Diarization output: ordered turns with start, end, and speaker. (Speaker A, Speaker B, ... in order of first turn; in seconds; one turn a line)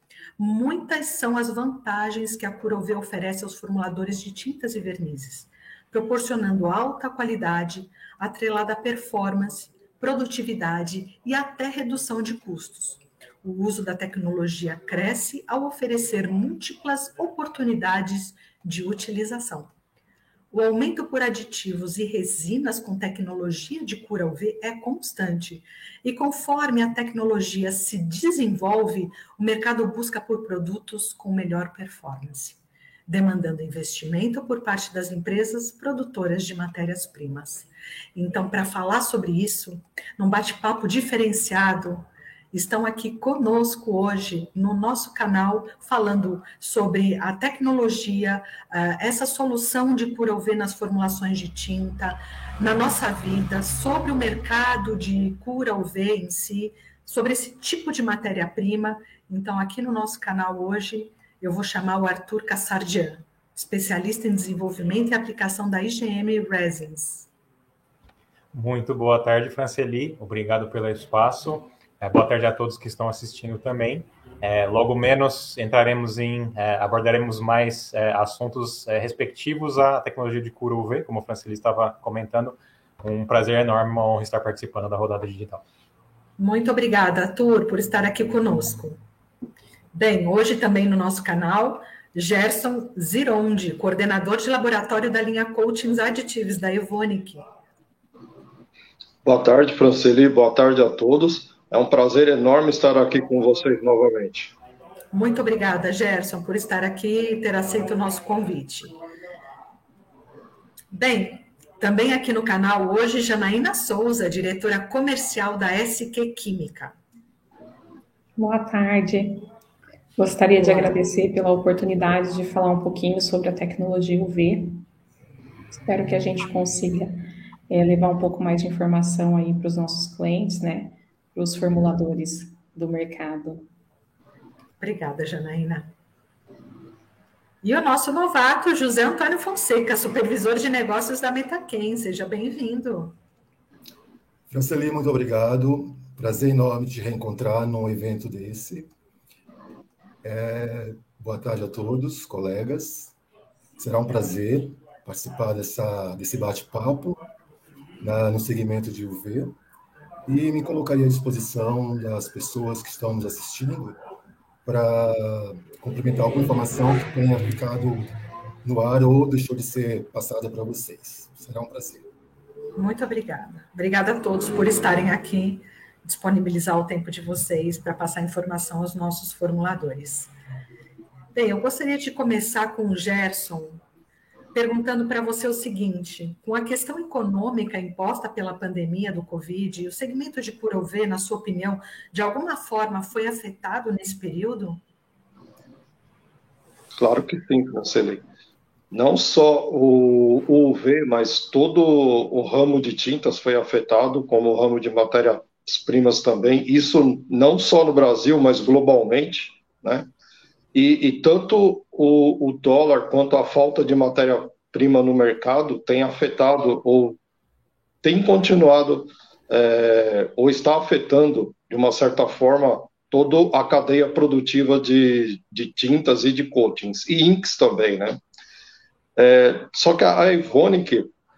Speaker A: 0.4-19.7
Speaker A: 20.5-67.3
Speaker B: 68.5-85.6
Speaker A: 86.4-89.0
Speaker A: 89.9-97.5
Speaker C: 99.2-104.5
Speaker A: 105.1-108.9
Speaker A: 110.9-117.0
Speaker D: 118.4-119.4
Speaker D: 120.2-124.8
Speaker A: 120.6-121.0
Speaker D: 125.7-127.2
Speaker D: 127.7-133.7
Speaker A: 134.8-135.9
Speaker A: 137.6-143.2
Speaker E: 144.5-148.9
Speaker E: 150.2-153.2
Speaker E: 153.8-157.2
Speaker E: 158.0-159.6
Speaker E: 160.3-164.0
Speaker E: 164.7-172.1
Speaker A: 172.8-180.3
Speaker A: 181.3-183.8
Speaker A: 184.5-194.8
Speaker C: 197.0-198.2
Speaker C: 198.9-210.1
Speaker C: 210.7-217.2
Speaker C: 218.0-228.2
Speaker C: 229.2-231.1